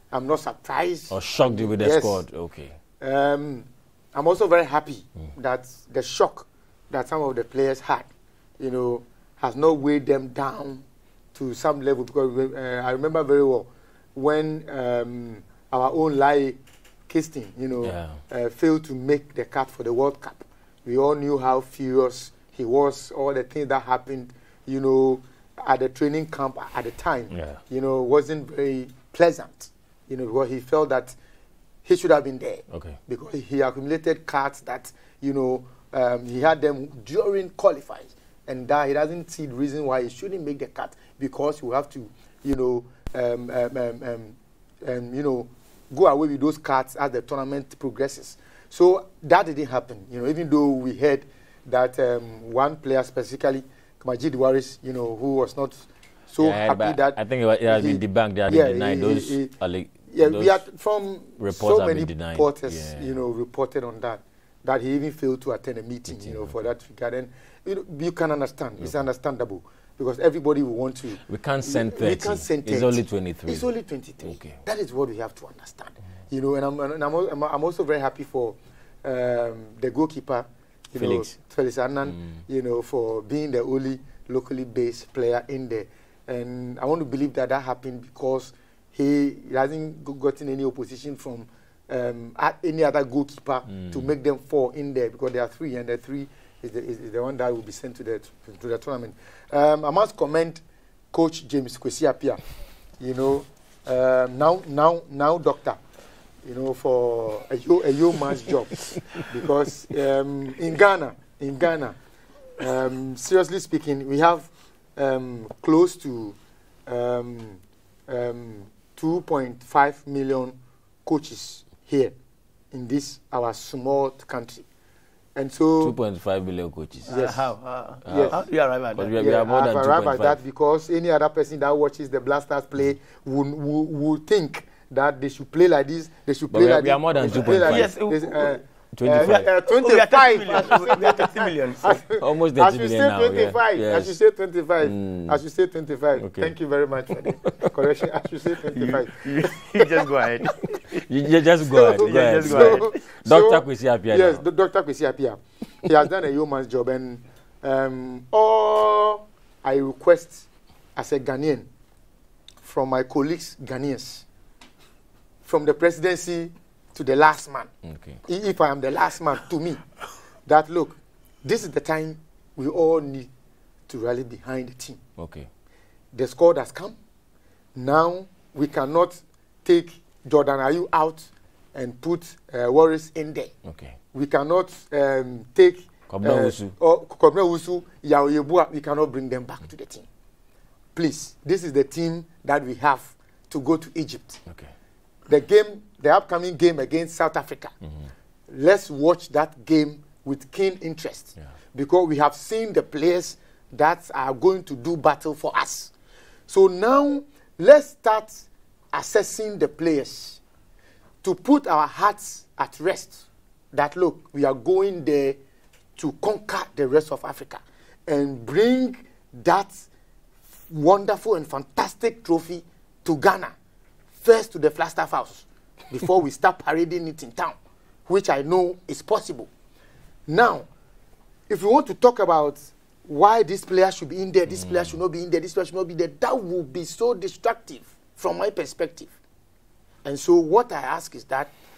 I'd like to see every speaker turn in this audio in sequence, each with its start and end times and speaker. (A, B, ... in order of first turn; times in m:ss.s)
0:00.1-0:02.2 A
0:01.1-0:02.7 B
0:03.0-0:08.1 A
0:08.6-0:31.2 A
0:17.8-0:18.2 B
0:27.3-0:27.6 B
0:31.8-0:59.5 A
0:32.7-0:33.0 B
0:56.4-1:00.6 B
1:00.1-1:40.6 A
1:01.4-1:03.1 B
1:06.1-1:06.7 B
1:11.2-1:13.7 B
1:14.2-1:14.6 B
1:21.0-1:21.3 B
1:41.1-1:42.4 A
1:43.0-1:45.8 A
1:46.4-1:52.0 A
1:52.6-1:56.4 A
1:56.9-2:02.1 A
2:02.7-2:04.6 A
2:05.4-2:06.0 A
2:05.8-2:07.1 B
2:07.1-2:09.2 C
2:07.1-2:07.4 A
2:08.0-2:08.4 A
2:08.0-2:08.4 B
2:08.9-2:10.4 B
2:09.1-2:29.2 A
2:16.5-2:17.9 B
2:17.2-2:18.6 C
2:18.9-2:19.5 B
2:19.2-2:22.0 C
2:22.2-2:24.2 B
2:24.8-2:25.4 B
2:26.2-2:26.5 B
2:27.1-2:27.7 B
2:28.7-2:31.0 C
2:30.9-2:34.4 B
2:31.6-2:41.7 A
2:31.8-2:33.0 C
2:42.6-2:44.2 A
2:45.4-2:47.7 A
2:47.8-2:48.2 B
2:48.2-2:49.8 A
2:50.5-2:53.3 A
2:53.9-2:55.0 A
2:55.2-2:55.5 B
2:56.1-2:57.0 A
2:57.7-3:03.5 A
3:03.6-3:03.9 B
3:04.1-3:10.0 A
3:06.1-3:06.7 B
3:10.9-3:14.4 A
3:15.3-3:17.7 A
3:18.5-3:25.9 A
3:26.5-3:30.4 A
3:31.2-3:35.4 A
3:36.0-3:39.8 A
3:40.7-3:43.5 A
3:44.2-3:47.6 A
3:48.1-3:49.5 A
3:50.3-3:50.7 A
3:51.5-3:59.1 A
4:00.0-4:01.5 A